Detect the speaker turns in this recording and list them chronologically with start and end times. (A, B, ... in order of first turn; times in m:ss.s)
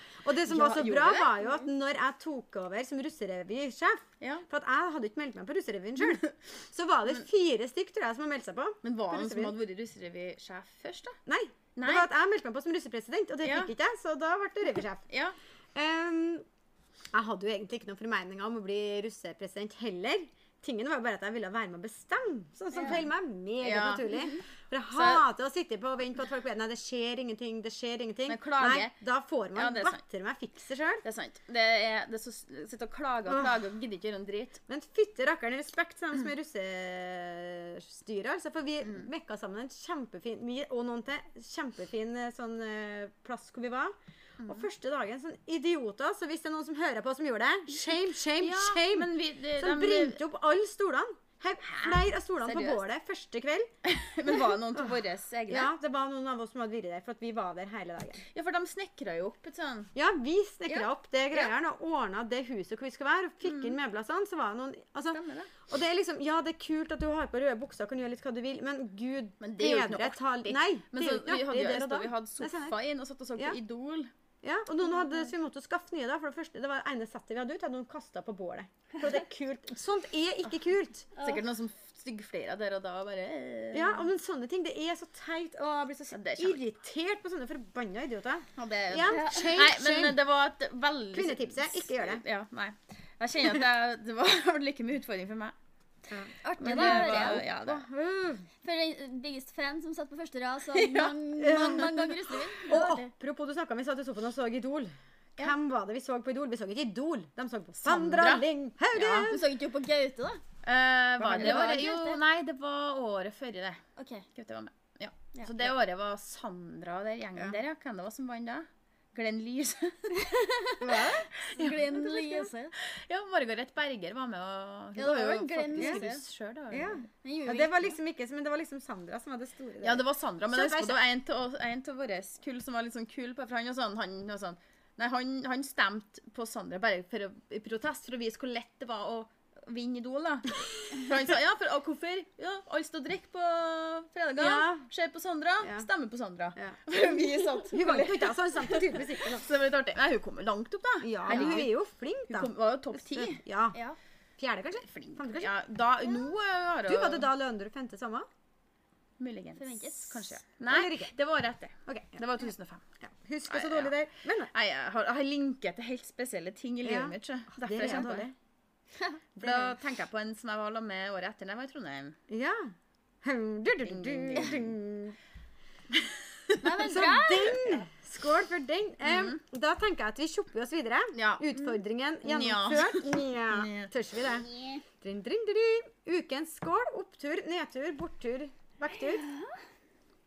0:00.2-0:09.6 A
0:00.5-0:01.3 B
0:01.4-0:01.7 C
0:06.0-0:06.3 B
0:08.8-0:11.2 B
0:11.3-0:15.0 A
0:11.8-0:12.1 B
0:13.4-0:13.7 B
0:15.1-0:15.4 B
0:15.8-0:16.4 A
0:17.1-0:31.0 A
0:23.6-0:24.2 B
0:24.9-0:25.2 B
0:28.3-0:28.9 B
0:29.5-0:30.0 B
0:31.0-0:34.6 B
0:33.3-0:33.6 A
0:34.7-0:53.7 A
0:38.8-0:39.1 B
0:48.4-0:50.2 B
0:51.6-0:52.8 B
0:53.8-0:55.7 B
0:55.5-0:58.2 A
0:58.3-0:59.9 B
1:00.0-1:12.8 A
1:03.4-1:03.8 B
1:05.1-1:05.5 B
1:09.4-1:14.1 B
1:14.4-1:21.1 A
1:21.2-1:21.4 C
1:21.2-1:24.1 B
1:23.7-1:30.2 A
1:26.1-1:26.6 B
1:28.6-1:35.6 B
1:29.0-1:29.6 C
1:31.1-1:32.2 A
1:36.1-1:38.5 A
1:36.4-1:37.4 C
1:36.6-1:37.8 B
1:38.6-1:43.1 C
1:40.7-1:42.8 B
1:41.4-1:42.1 A
1:42.7-1:49.4 A
1:47.8-1:49.3 B
1:49.2-1:50.4 C
1:50.6-1:53.8 B
1:51.2-1:51.9 A
1:51.3-1:52.2 C
1:54.0-1:54.3 C
1:54.4-2:00.3 B
1:55.4-1:55.6 C
2:00.2-2:00.8 C
2:00.8-2:01.3 A
2:01.5-2:07.0 B
2:01.6-2:02.7 C
2:05.0-2:06.2 C
2:05.8-2:06.0 A
2:06.7-2:11.0 A
2:07.2-2:07.9 C
2:09.8-2:31.7 B
2:24.4-2:24.9 A
2:25.6-2:25.9 A
2:27.7-2:29.5 A
2:31.0-2:33.8 A
2:31.3-2:31.6 C
2:32.3-2:33.4 B
2:34.4-2:35.5 A
2:34.8-2:37.3 B
2:36.9-2:38.3 A
2:39.2-2:42.8 B
2:39.6-2:40.3 C
2:40.7-2:41.1 A
2:41.9-2:42.2 A
2:43.0-2:44.5 A
2:43.5-2:44.0 B
2:44.5-2:48.3 B
2:46.8-2:48.4 A
2:49.4-2:49.8 A
2:49.4-2:52.2 B
2:52.3-2:55.2 A
2:53.8-2:54.7 B
2:55.9-2:56.6 B
2:56.6-2:57.8 C
2:56.8-3:04.5 A
2:59.0-2:59.4 B
3:01.2-3:01.5 B
3:02.2-3:03.9 B
3:04.4-3:04.8 C
3:05.0-3:09.2 A
3:09.0-3:09.5 C